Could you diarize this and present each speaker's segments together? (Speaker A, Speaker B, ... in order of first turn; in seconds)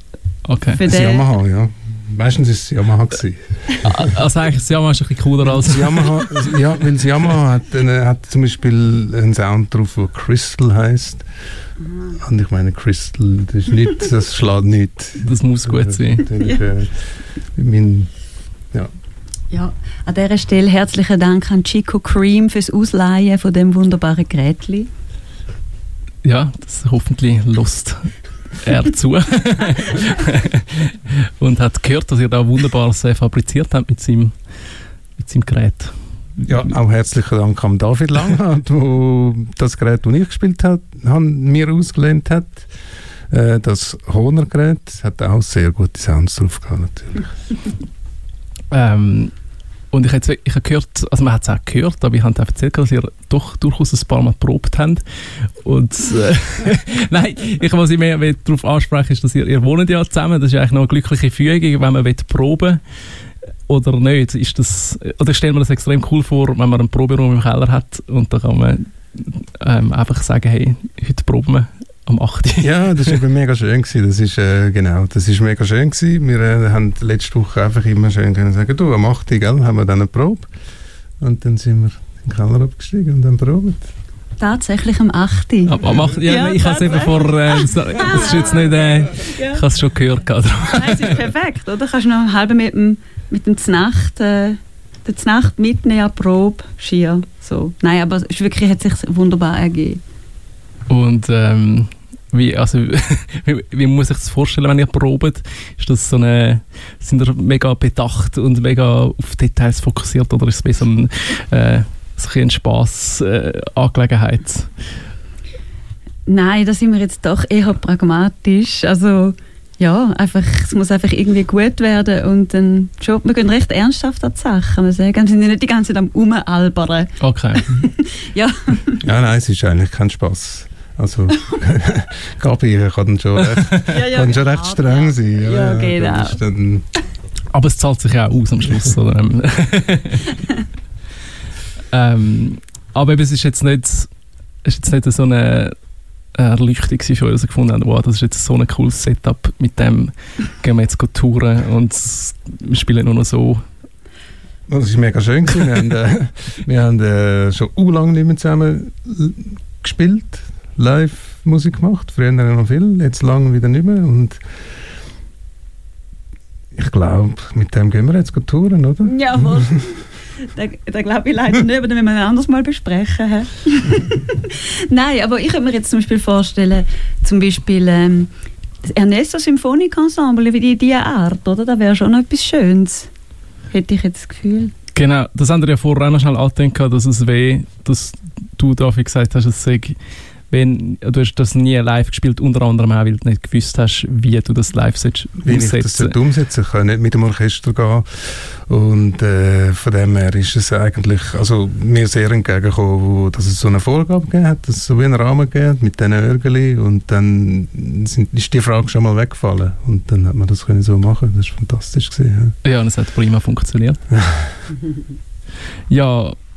Speaker A: 0.5-0.8, 3.8-6.4, 15.2-16.3, 26.2-34.3, 35.2-36.6, 48.7-49.3, 49.9-55.0, 55.6-62.8, 63.7-73.2, 85.7-91.2, 100.9-114.7, 127.2-127.8, 137.5-140.4, 141.9-144.1, 144.6-145.8, 146.3-153.7, 184.9-190.0, 190.5-196.2, 212.6-214.0, 215.9-216.4
Speaker B: 0.7-1.3, 19.5-24.9, 84.4-89.6, 90.7-100.0, 116.3-129.0, 133.9-136.4, 169.0-178.3, 178.8-183.1, 183.7-184.7
Speaker C: 0.8-4.1, 5.6-11.2, 12.1-17.0, 17.6-18.1, 36.5-42.7, 43.3-47.3, 72.6-80.5, 81.2-83.9, 129.0-136.8, 154.7-164.4, 166.8-169.8, 195.4-212.6, 214.1-214.5